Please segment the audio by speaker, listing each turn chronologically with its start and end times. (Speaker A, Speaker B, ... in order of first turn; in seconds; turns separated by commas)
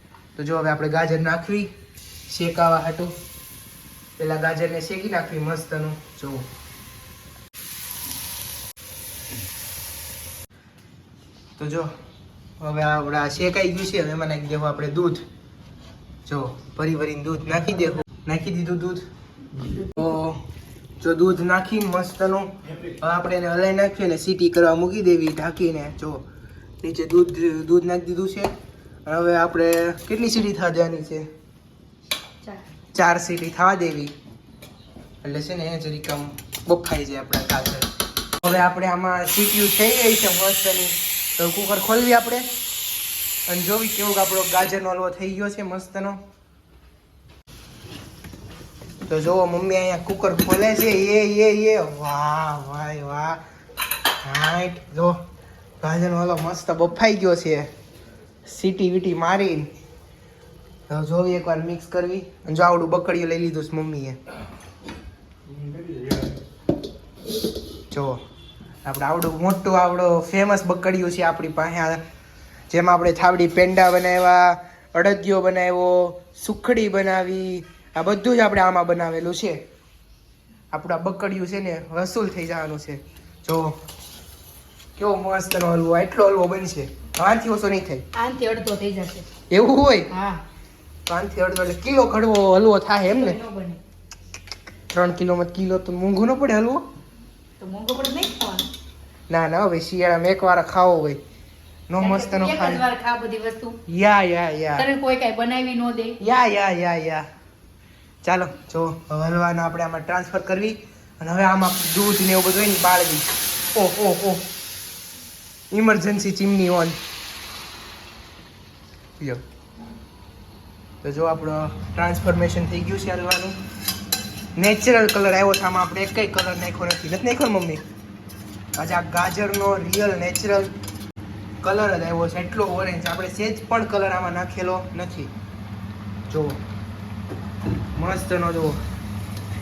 Speaker A: 0.4-1.7, Speaker A: 2.3-3.1, Speaker A: 4.2-6.5, Speaker A: 11.6-11.9, Speaker A: 12.6-15.2, Speaker A: 16.2-19.1, Speaker A: 19.8-20.4, Speaker A: 21.0-26.2, Speaker A: 26.8-28.5, Speaker A: 29.1-31.3, Speaker A: 32.9-34.1, Speaker A: 35.2-37.9, Speaker A: 38.4-42.5, Speaker A: 43.5-46.2, Speaker A: 49.1-53.4, Speaker A: 54.2-55.2, Speaker A: 55.8-57.7, Speaker A: 58.4-59.7, Speaker A: 60.9-64.2, Speaker A: 67.9-68.2, Speaker A: 68.8-72.0, Speaker A: 72.7-79.6, Speaker A: 80.7-83.8, Speaker A: 85.0-88.0, Speaker B: 88.1-89.2, Speaker A: 89.5-90.1, Speaker B: 90.1-90.4, Speaker A: 91.1-93.4, Speaker B: 93.0-93.8, Speaker A: 94.9-96.8, Speaker B: 97.6-98.7, Speaker A: 99.3-101.2, Speaker A: 101.9-102.8, Speaker B: 102.0-103.8, Speaker A: 103.9-104.9, Speaker B: 104.7-106.2, Speaker A: 106.2-107.3, Speaker A: 108.2-114.5, Speaker A: 115.7-117.0, Speaker A: 121.0-123.6, Speaker A: 124.5-127.8, Speaker A: 128.8-130.7, Speaker A: 131.6-135.3, Speaker A: 136.3-136.6, Speaker A: 137.9-138.8